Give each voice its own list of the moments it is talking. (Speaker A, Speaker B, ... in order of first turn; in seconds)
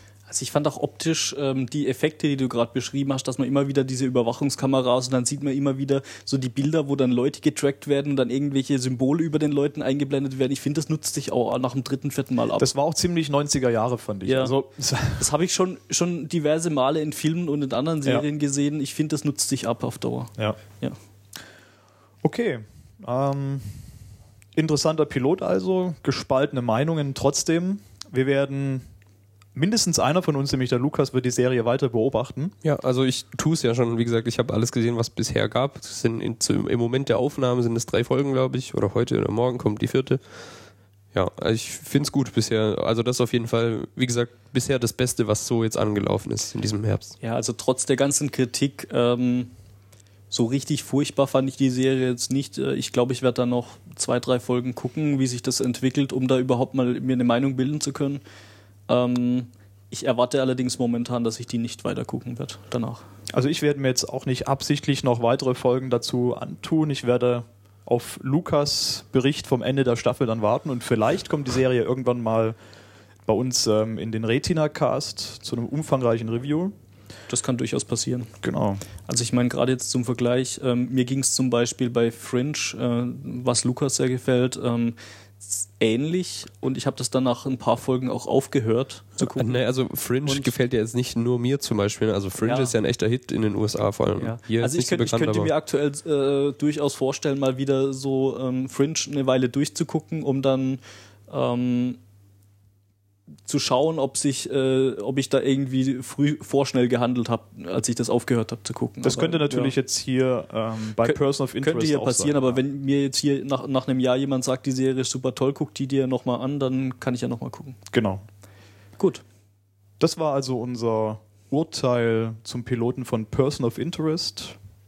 Speaker A: 0.3-12.7, 14.2-14.6, 15.1-21.0, 47.2-49.5, 50.3-58.2, 58.9-63.0, 77.3-78.3, 79.0-89.6, 90.2-90.5, 92.4-92.7, 94.2-102.0, 103.5-109.7, 111.0-117.8, 119.0-119.2
Speaker B: 12.6-15.3, 22.2-23.9, 24.6-28.9, 29.6-32.5, 63.3-72.6, 73.3-76.7, 78.4-78.8, 109.0-112.6, 117.9-118.2, 120.0-124.6
Speaker C: 32.6-40.2, 41.1-47.1, 89.2-95.5